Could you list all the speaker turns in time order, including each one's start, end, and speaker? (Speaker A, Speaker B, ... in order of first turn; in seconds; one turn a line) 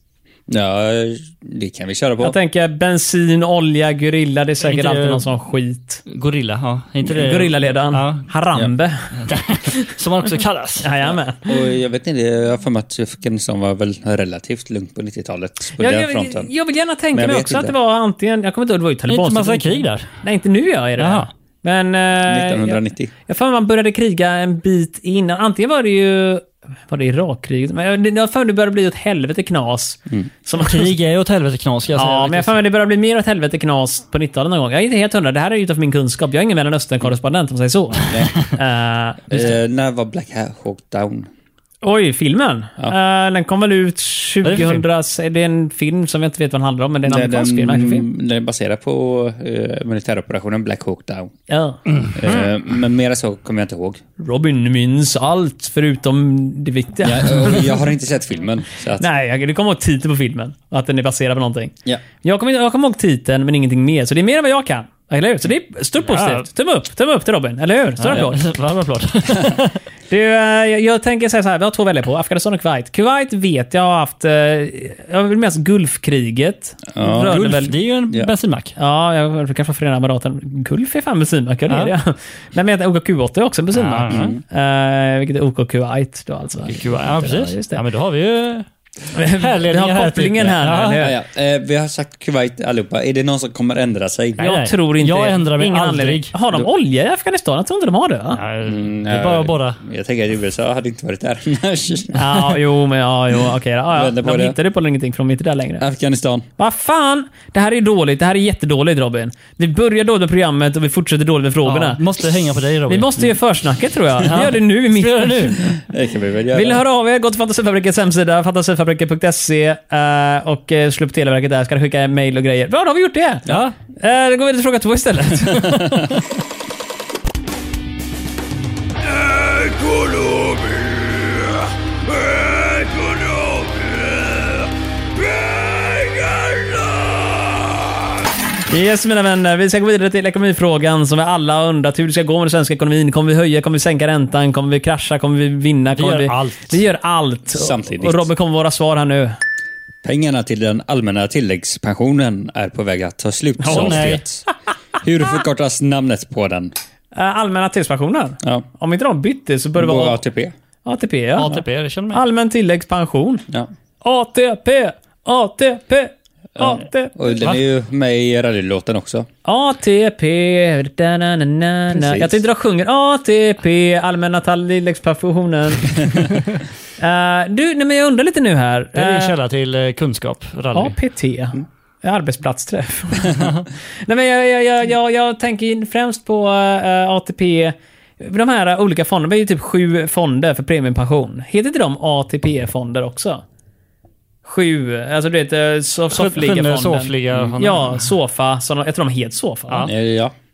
Speaker A: 0.5-2.3
Speaker B: 2.2-6.0
Speaker C: 4.6-5.2
Speaker C: 6.1-8.2
Speaker B: 7.1-9.1
Speaker C: 9.3-10.9
Speaker B: 10.8-11.5
Speaker A: 11.5-16.5
Speaker B: 15.8-30.9
Speaker A: 17.1-17.8
Speaker C: 19.1-20.1
Speaker C: 21.0-21.3
Speaker A: 22.2-23.1
Speaker C: 30.6-32.6
Speaker B: 31.9-39.5
Speaker A: 38.1-38.3
Speaker A: 39.3-41.3
Speaker B: 41.8-48.0
Speaker C: 44.4-44.8
Speaker A: 47.0-51.3
Speaker B: 51.5-51.8
Speaker A: 52.1-54.0
Speaker B: 54.2-57.8
Speaker A: 57.0-59.1
Speaker B: 59.0-68.4
Speaker C: 66.0-66.4
Speaker C: 68.0-69.8
Speaker B: 70.1-77.7
Speaker A: 76.9-77.4
Speaker C: 77.2-78.8
Speaker B: 78.8-87.8
Speaker C: 81.7-82.0
Speaker C: 83.7-84.3
Speaker A: 84.1-84.4
Speaker C: 86.7-88.7
Speaker B: 89.1-91.1
Speaker C: 89.2-91.0
Speaker A: 91.0-94.4
Speaker C: 94.4-96.3
Speaker B: 94.4-98.4
Speaker C: 98.3-99.8
Speaker A: 98.6-102.4
Speaker B: 102.1-105.8
Speaker A: 103.9-104.6
Speaker A: 105.8-106.5
Speaker B: 106.6-112.0
Speaker C: 111.6-113.3
Speaker B: 112.9-115.7
Speaker C: 114.2-115.6
Speaker A: 115.7-116.8
Speaker B: 116.5-126.0
Speaker C: 123.5-123.7
Speaker A: 125.6-126.1
Speaker A: 129.4-131.3
Speaker A: 132.3-134.0
Speaker B: 138.7-149.4
Speaker C: 145.9-146.8
Speaker A: 147.5-148.2
Speaker A: 150.0-154.4
Speaker B: 153.6-154.2
Speaker C: 153.7-154.2
Speaker A: 155.0-156.7
Speaker B: 157.2-160.2
Speaker A: 159.8-160.5
Speaker B: 160.8-161.6
Speaker C: 161.4-162.2
Speaker B: 162.1-163.4
Speaker B: 164.0-167.2
Speaker A: 166.6-169.3
Speaker B: 169.4-176.3
Speaker A: 171.9-172.4
Speaker B: 177.0-179.3
Speaker C: 178.9-181.0
Speaker B: 180.7-183.5
Speaker C: 183.3-183.7
Speaker B: 184.0-193.4
Speaker B: 194.4-199.9
Speaker C: 196.1-198.1
Speaker A: 197.3-197.6
Speaker A: 199.8-200.3